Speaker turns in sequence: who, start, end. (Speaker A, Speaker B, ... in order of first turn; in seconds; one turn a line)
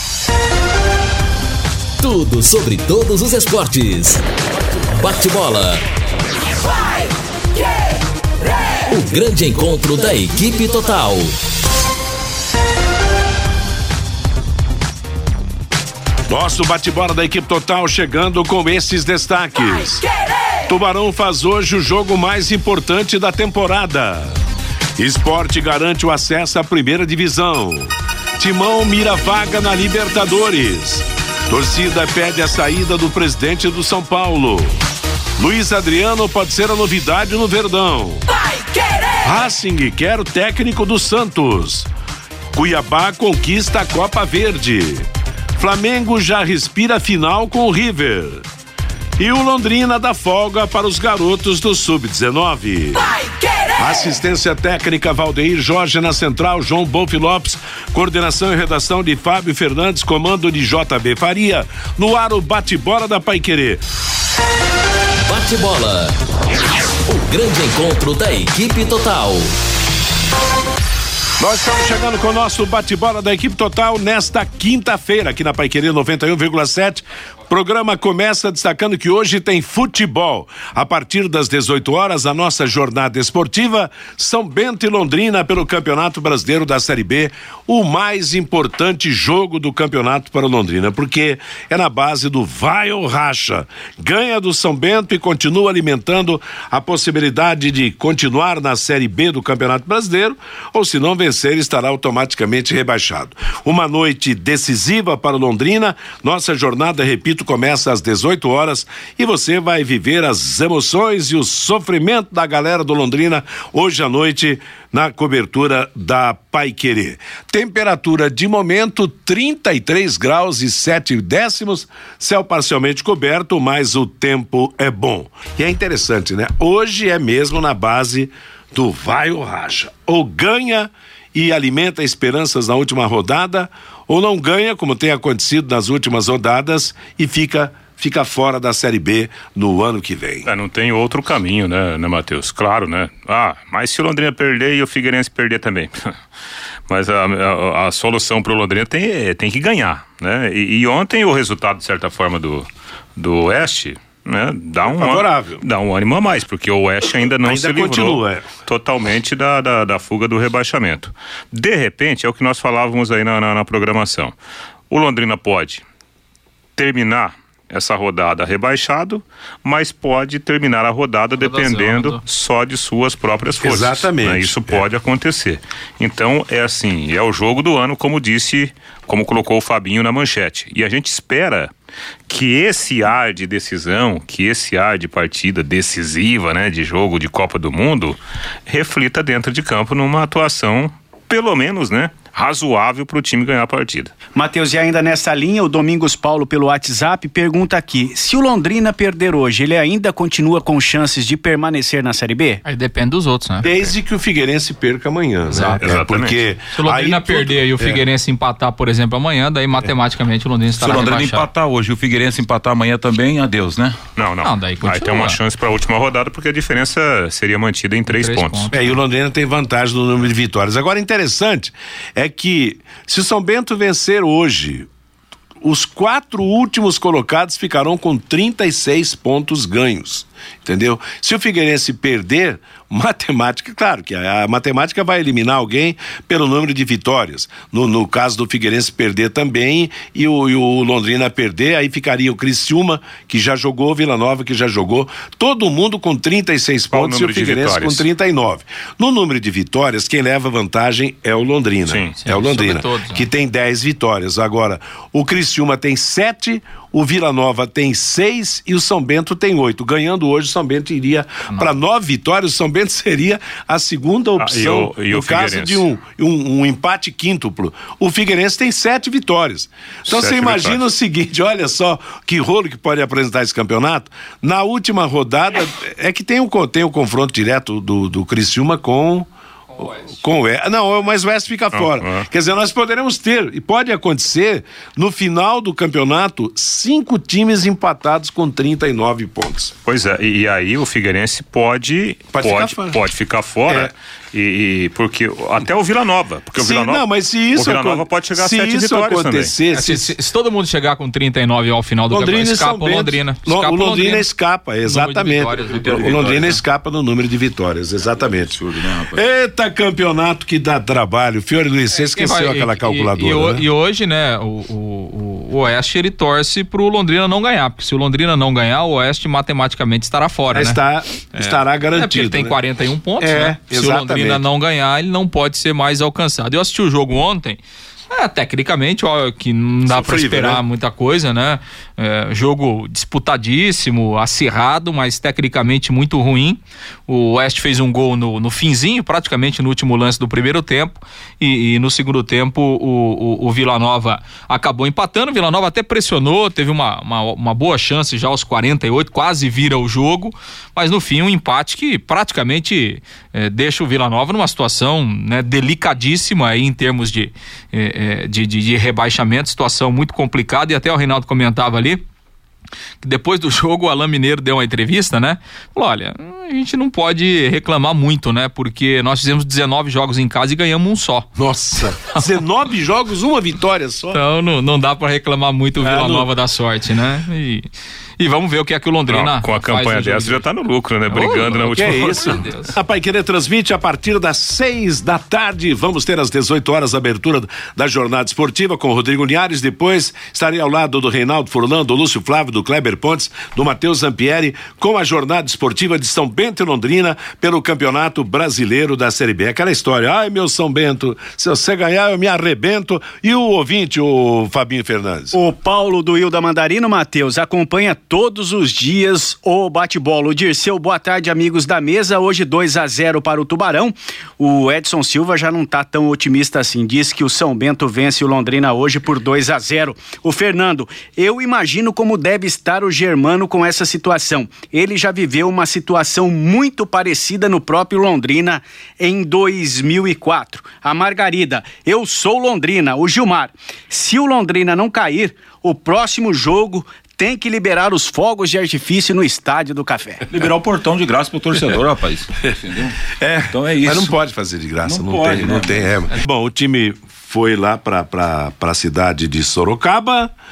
Speaker A: 2.0-4.2
Speaker A: 5.0-5.8
Speaker A: 8.9-11.3
Speaker B: 16.3-20.0
Speaker B: 20.6-24.4
Speaker B: 25.0-34.8
Speaker B: 35.4-38.2
Speaker B: 39.2-41.9
Speaker B: 42.5-48.4
Speaker B: 49.2-53.1
Speaker B: 53.7-63.8
Speaker A: 65.2-66.1
Speaker A: 67.1-69.5
Speaker B: 71.4-140.5
Speaker C: 140.4-146.1
Speaker C: 146.9-164.3
Speaker B: 154.8-155.6
Speaker B: 157.4-158.5
Speaker C: 164.9-165.8
Speaker C: 166.8-181.7
Speaker D: 171.4-172.2
Speaker B: 173.6-174.8
Speaker C: 182.3-194.1
Speaker E: 194.3-202.6
Speaker D: 202.6-203.9
Speaker B: 203.6-208.0
Speaker D: 205.5-205.8
Speaker C: 205.8-206.4
Speaker D: 206.7-211.5
Speaker F: 210.8-214.0
Speaker C: 214.2-218.7
Speaker D: 214.4-215.4
Speaker D: 218.1-218.9
Speaker B: 218.7-224.9
Speaker B: 225.6-289.7
Speaker C: 246.9-248.0
Speaker C: 251.9-252.1
Speaker D: 252.2-253.3
Speaker C: 264.4-265.8
Speaker C: 270.1-270.8
Speaker C: 281.7-282.2
Speaker C: 289.9-299.5
Speaker B: 292.3-293.0
Speaker B: 296.6-300.1
Speaker D: 299.7-304.3
Speaker B: 302.1-313.6
Speaker D: 304.8-306.0
Speaker F: 305.7-306.6
Speaker F: 308.5-309.2
Speaker D: 311.9-320.8
Speaker B: 320.5-322.6
Speaker D: 321.3-327.6
Speaker B: 323.2-324.4
Speaker D: 328.1-362.0
Speaker B: 329.9-330.6
Speaker D: 363.0-371.3
Speaker B: 371.4-374.2
Speaker D: 374.1-380.4
Speaker B: 375.8-376.3
Speaker C: 379.1-382.4
Speaker D: 381.1-382.7
Speaker B: 381.7-405.4
Speaker E: 405.3-440.2
Speaker F: 440.3-443.0
Speaker B: 443.2-450.3
Speaker F: 443.5-444.1
Speaker F: 444.8-445.9